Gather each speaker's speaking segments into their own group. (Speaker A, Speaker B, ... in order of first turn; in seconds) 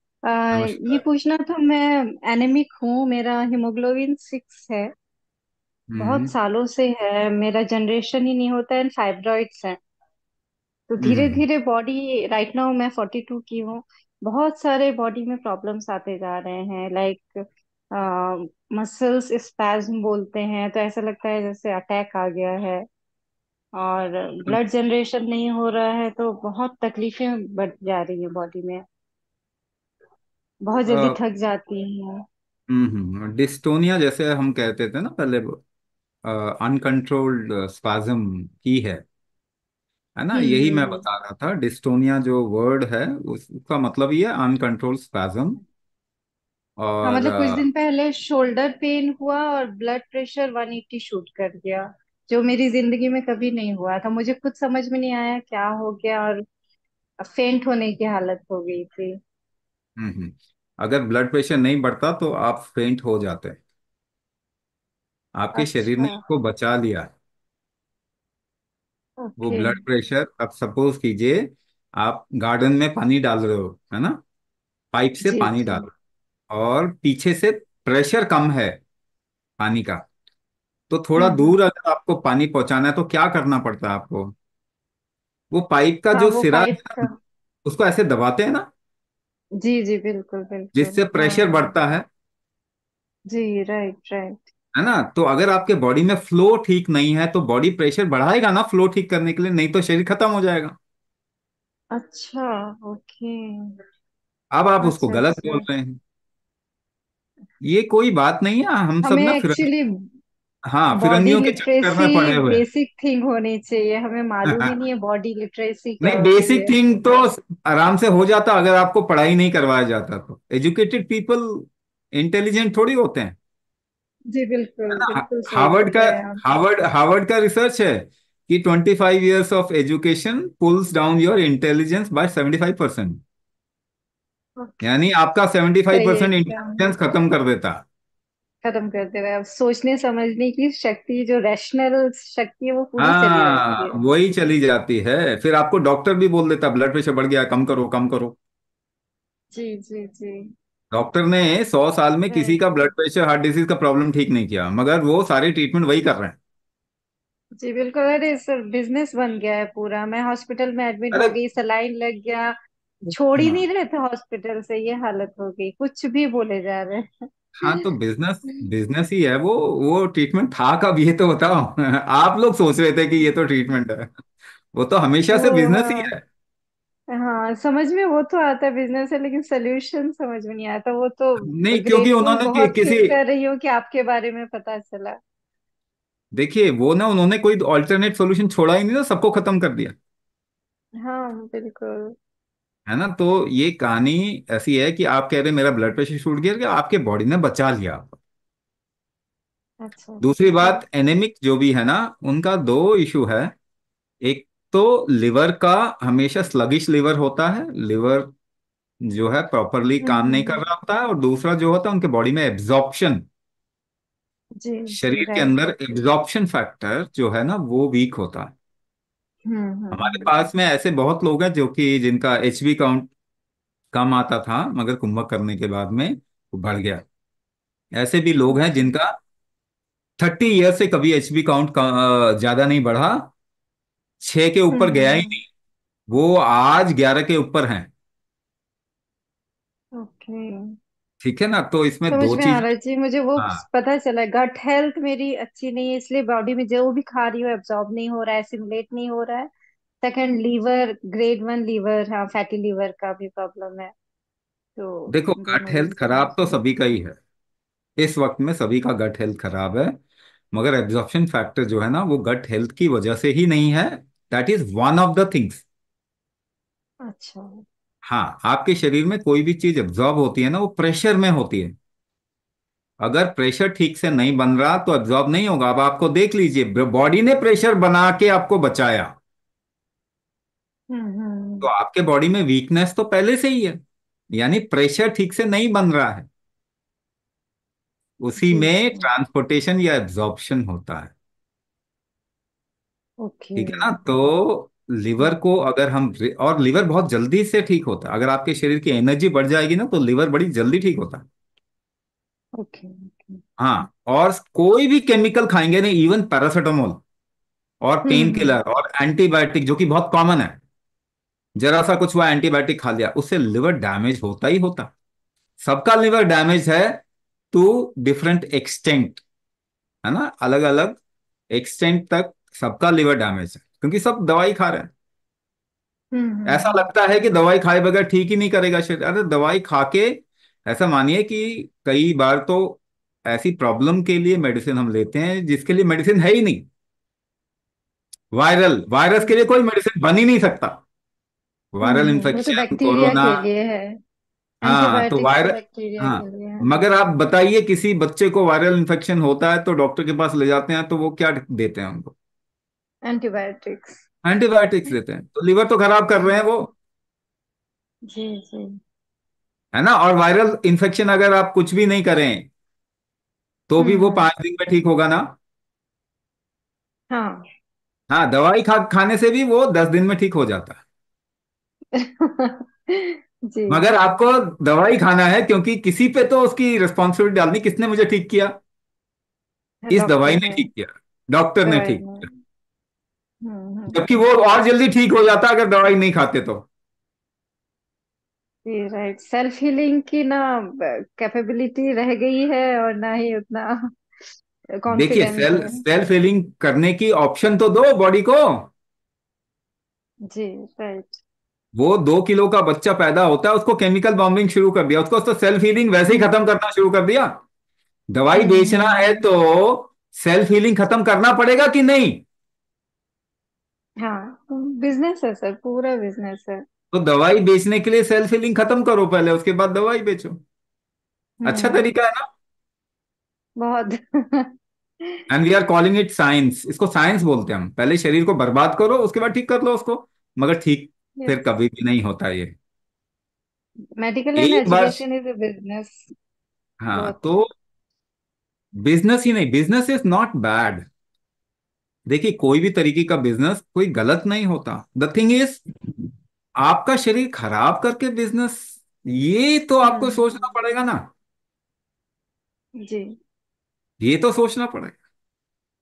Speaker A: 0.3-4.9, 6.0-9.8, 10.9-17.3, 17.9-22.8, 23.8-28.8, 30.7-32.2, 40.3-41.0, 47.0-56.4, 57.2-59.1, 65.6-66.2, 69.2-69.8, 75.2-75.9, 81.2-81.5, 86.2-87.1, 89.6-91.7, 93.3-94.5, 101.9-103.8, 104.8-105.7, 109.0-109.9, 111.0-116.9, 124.3-126.5, 134.6-134.9, 135.9-136.9, 138.6-144.0, 149.5-150.4, 152.3-152.9, 157.6-162.5, 163.1-167.1, 175.3-176.1, 177.1-185.2, 191.0-192.1, 199.8-200.8, 210.0-210.6, 214.6-215.5, 219.5-220.3, 228.5-228.9, 234.7-235.4, 240.0-240.6, 242.1-249.5, 250.0-253.9, 254.8-256.6, 267.1-267.5, 280.9-281.7, 288.4-289.1, 293.2-293.9, 302.6-303.4, 308.1-308.6, 326.1-326.9, 341.8-343.9, 344.6-346.8, 353.1-354.0, 356.2-356.4, 358.1-358.7, 363.8-364.3, 367.1-367.4, 371.9-373.9, 379.9-380.7, 381.6-382.4, 383.4-384.1, 388.7-393.7, 394.8-395.8, 400.3-401.2, 408.3-409.2, 414.0-416.6, 421.4-421.8, 423.6-424.5, 431.2-431.4, 434.0-436.1, 436.9-437.3, 449.8-450.5, 452.8-453.1
Speaker B: 0.5-1.0, 5.9-6.3, 11.0-11.4, 30.9-31.2, 32.7-35.6, 36.2-39.0, 40.2-45.6, 46.8-47.6, 60.0-63.6, 65.3-67.1, 69.4-71.4, 72.0-74.2, 74.9-75.9, 76.5-78.8, 79.6-80.0, 80.9-84.3, 85.5-87.0, 87.7-88.7, 90.8-92.0, 94.8-100.8, 104.5-106.0, 107.6-109.7, 110.7-112.6, 116.0-123.4, 125.0-133.2, 134.8-137.8, 143.0-148.4, 150.9-156.4, 163.4-163.6, 167.6-174.1, 174.7-176.2, 181.5-183.2, 186.3-189.9, 192.9-198.2, 200.2-203.5, 204.2-208.3, 209.1-213.2, 214.9-218.5, 219.9-223.1, 223.9-227.1, 228.0-229.1, 230.2-233.2, 234.2-235.5, 236.1-237.9, 241.2-242.7, 243.4-243.6, 255.1-257.2, 258.0-259.9, 260.5-265.6, 268.1-271.8, 273.0-279.1, 281.6-283.8, 284.3-286.3, 288.2-291.1, 293.6-301.2, 303.6-307.0, 307.8-310.6, 311.6-314.9, 315.6-319.2, 320.0-321.0, 321.5-324.9, 326.5-330.2, 330.7-336.6, 338.3-340.7, 341.7-343.4, 344.6-352.1, 354.2-356.7, 359.7-362.5, 363.7-365.2, 368.1-370.8, 373.7-378.5, 379.9-382.3, 383.9-386.6, 394.9-398.7, 401.8-407.3, 408.1-412.2, 416.9-420.4, 421.4-422.2, 425.3-432.6, 434.4-435.0, 436.8-437.5, 438.9-440.9, 442.1-445.6, 446.6-451.0, 454.0-455.0